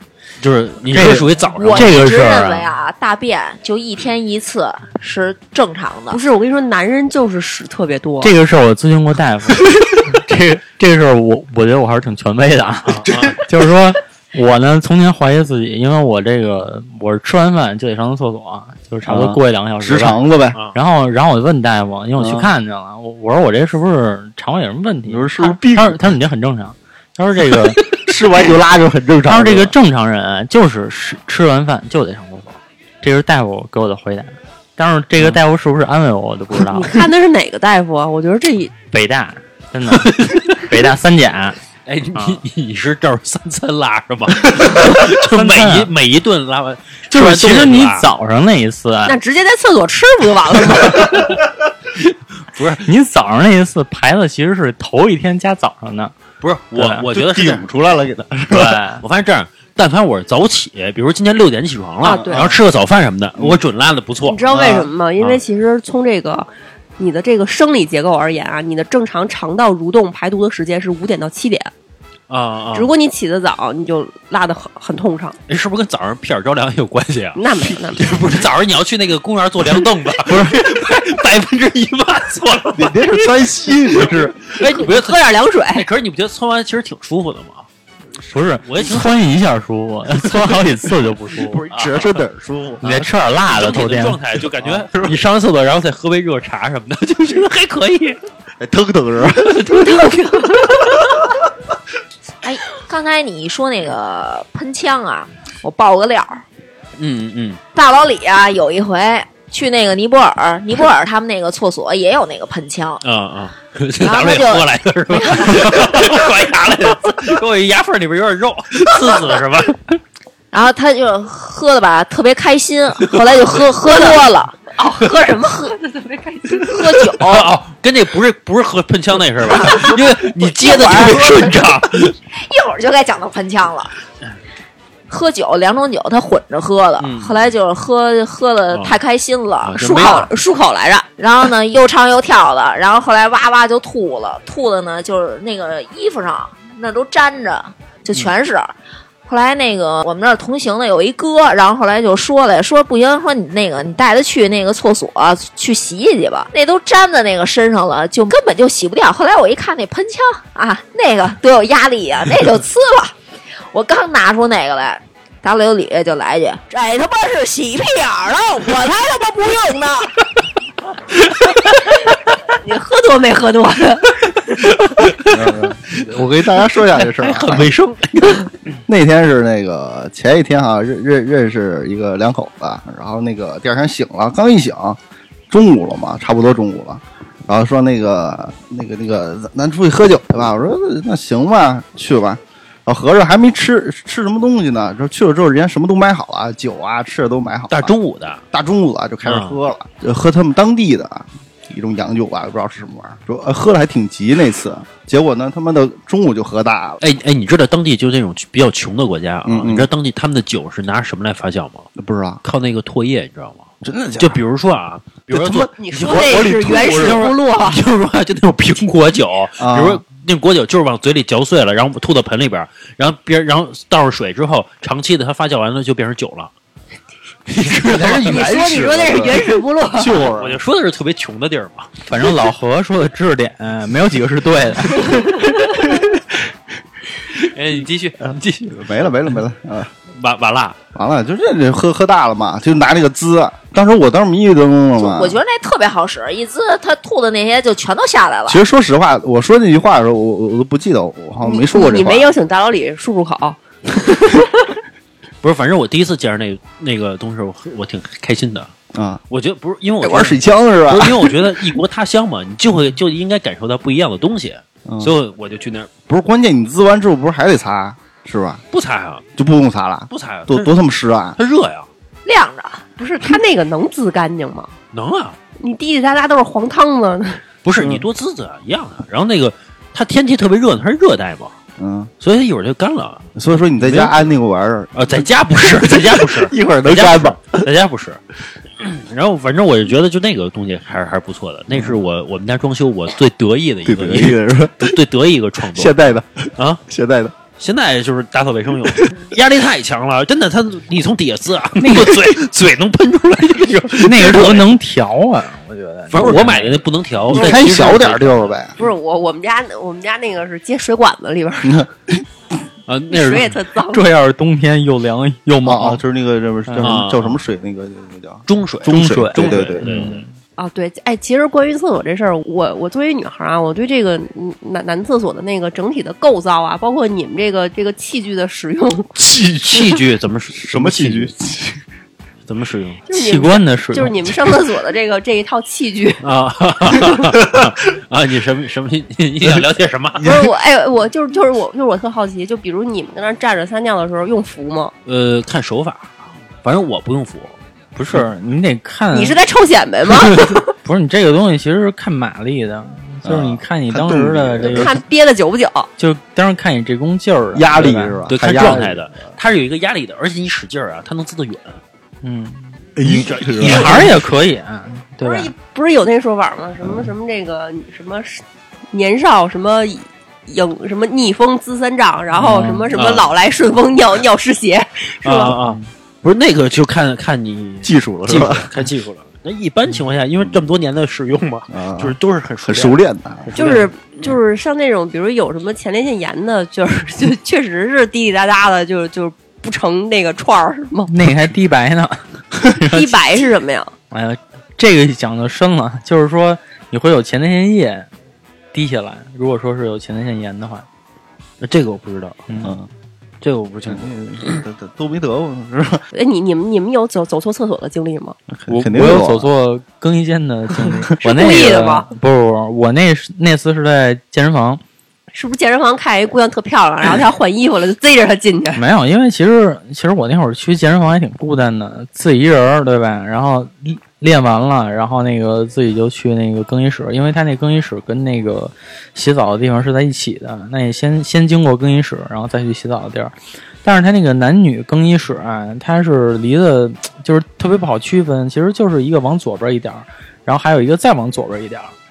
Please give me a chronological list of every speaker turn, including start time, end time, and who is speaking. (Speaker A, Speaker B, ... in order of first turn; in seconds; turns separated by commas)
Speaker A: 0.4-2.2, Speaker B: 0.9-2.7, Speaker C: 1.5-6.2, Speaker D: 6.1-8.3, Speaker B: 8.2-20.2, Speaker A: 12.8-13.4, Speaker E: 19.0-20.6, Speaker B: 20.7-27.8, Speaker E: 22.2-22.5, Speaker E: 25.1-26.1, Speaker E: 27.9-29.7, Speaker B: 29.2-37.0, Speaker D: 36.7-38.7, Speaker B: 38.9-41.6, Speaker A: 39.9-40.5, Speaker A: 41.9-48.0, Speaker B: 42.1-42.4, Speaker B: 44.8-45.9, Speaker B: 47.1-49.2, Speaker D: 49.0-51.4, Speaker A: 51.1-51.4, Speaker A: 52.0-52.9, Speaker B: 52.8-56.1, Speaker A: 56.4-58.2, Speaker B: 56.8-57.0, Speaker E: 57.1-58.8, Speaker B: 58.5-59.0, Speaker A: 58.9-64.4, Speaker D: 62.0-62.4, Speaker E: 62.3-62.6, Speaker D: 64.2-71.7, Speaker E: 64.5-64.9, Speaker A: 72.3-72.9, Speaker D: 72.7-75.4, Speaker A: 75.5-83.3, Speaker D: 77.3-78.2, Speaker B: 80.3-80.7, Speaker E: 82.7-84.5, Speaker A: 84.5-87.7, Speaker D: 84.5-85.8, Speaker B: 88.3-91.6, Speaker A: 88.6-89.2, Speaker A: 91.5-92.2, Speaker E: 91.7-93.0, Speaker B: 92.8-94.2, Speaker A: 93.4-98.2, Speaker E: 94.6-95.1, Speaker E: 98.6-100.0, Speaker D: 99.6-101.0, Speaker C: 102.4-106.4, Speaker A: 107.0-107.6, Speaker C: 107.7-113.0, Speaker A: 113.0-119.8, Speaker C: 114.0-116.1, Speaker C: 120.5-124.5, Speaker A: 123.0-123.6, Speaker D: 123.8-124.2, Speaker D: 124.8-126.8, Speaker C: 126.6-127.5, Speaker A: 127.2-132.1, Speaker D: 129.6-130.0, Speaker C: 130.6-131.5, Speaker D: 130.6-131.3, Speaker C: 132.3-134.0, Speaker C: 135.1-140.3, Speaker A: 137.0-137.5, Speaker A: 138.7-139.0, Speaker A: 139.6-140.3, Speaker D: 139.8-141.1, Speaker C: 141.2-148.7, Speaker C: 149.2-163.1, Speaker C: 163.7-170.3, Speaker D: 172.6-174.7, Speaker A: 174.6-178.5, Speaker E: 175.2-177.7, Speaker E: 178.9-185.0, Speaker E: 185.5-197.9, Speaker A: 197.7-198.4, Speaker E: 198.5-207.0, Speaker A: 199.2-199.6, Speaker A: 207.0-211.9, Speaker E: 209.4-209.9, Speaker E: 211.9-212.4, Speaker A: 212.4-226.5, Speaker E: 213.8-214.4, Speaker E: 215.3-217.4, Speaker D: 215.8-217.8, Speaker E: 219.6-220.0, Speaker A: 227.5-229.4, Speaker E: 227.8-230.6, Speaker D: 228.0-230.3, Speaker A: 230.3-231.9, Speaker B: 232.1-235.2, Speaker A: 237.3-239.1, Speaker E: 238.2-239.9, Speaker A: 240.1-240.8, Speaker E: 240.9-245.4, Speaker C: 245.0-248.6, Speaker E: 248.5-252.3, Speaker D: 251.4-254.7, Speaker A: 255.4-258.7, Speaker E: 258.9-259.2, Speaker A: 259.3-265.9, Speaker E: 260.0-261.3, Speaker E: 264.9-265.1, Speaker E: 266.1-268.6, Speaker A: 268.7-269.2, Speaker E: 269.4-271.4, Speaker A: 270.1-270.7, Speaker A: 271.4-271.9, Speaker C: 272.2-272.8, Speaker D: 273.0-274.7, Speaker A: 274.9-275.4, Speaker D: 275.6-277.4, Speaker A: 277.6-281.5, Speaker E: 277.8-278.1, Speaker E: 281.8-282.1, Speaker A: 282.2-284.3, Speaker E: 283.4-287.6, Speaker A: 284.9-288.2, Speaker A: 288.8-296.0, Speaker E: 291.7-292.0, Speaker E: 293.8-294.9, Speaker E: 295.7-297.3, Speaker A: 296.6-296.8, Speaker A: 297.6-304.7, Speaker B: 301.8-302.4, Speaker B: 304.0-306.8, Speaker A: 306.1-308.6, Speaker E: 307.3-308.8, Speaker D: 307.4-307.6, Speaker D: 308.8-311.9, Speaker E: 311.6-312.2, Speaker A: 312.9-313.5, Speaker D: 313.1-314.0, Speaker B: 313.9-316.0, Speaker E: 315.6-320.1, Speaker B: 316.6-317.0, Speaker A: 316.8-317.4, Speaker A: 318.5-320.2, Speaker B: 318.9-320.3, Speaker D: 320.6-329.1, Speaker A: 329.2-331.3, Speaker E: 330.5-331.8, Speaker A: 332.5-333.0, Speaker D: 333.1-336.2, Speaker B: 333.1-334.3, Speaker A: 336.2-340.3, Speaker E: 340.2-340.4, Speaker D: 340.2-344.9, Speaker A: 345.1-347.6, Speaker B: 347.9-349.4, Speaker D: 349.1-350.7, Speaker B: 350.8-354.9, Speaker E: 353.2-354.9, Speaker D: 354.7-355.9, Speaker B: 356.0-358.9, Speaker E: 357.5-359.3, Speaker A: 358.3-361.8, Speaker B: 362.2-362.8, Speaker E: 362.9-364.2, Speaker A: 363.0-364.2, Speaker B: 363.6-365.5, Speaker D: 365.2-375.6, Speaker E: 366.8-367.1, Speaker B: 372.4-372.9, Speaker A: 372.9-373.3, Speaker A: 375.2-383.0, Speaker E: 377.8-378.7, Speaker E: 381.7-383.6, Speaker B: 383.5-383.9, Speaker D: 383.6-391.1, Speaker B: 391.1-393.4, Speaker D: 392.8-393.9, Speaker B: 394.1-398.1, Speaker B: 398.7-400.9, Speaker A: 401.6-402.4, Speaker B: 402.5-402.7, Speaker E: 402.6-402.9, Speaker A: 403.4-404.6, Speaker E: 403.8-406.0, Speaker D: 406.1-408.4, Speaker E: 408.5-409.5, Speaker B: 408.7-414.8, Speaker D: 411.2-412.1, Speaker D: 415.3-418.8, Speaker B: 418.7-441.9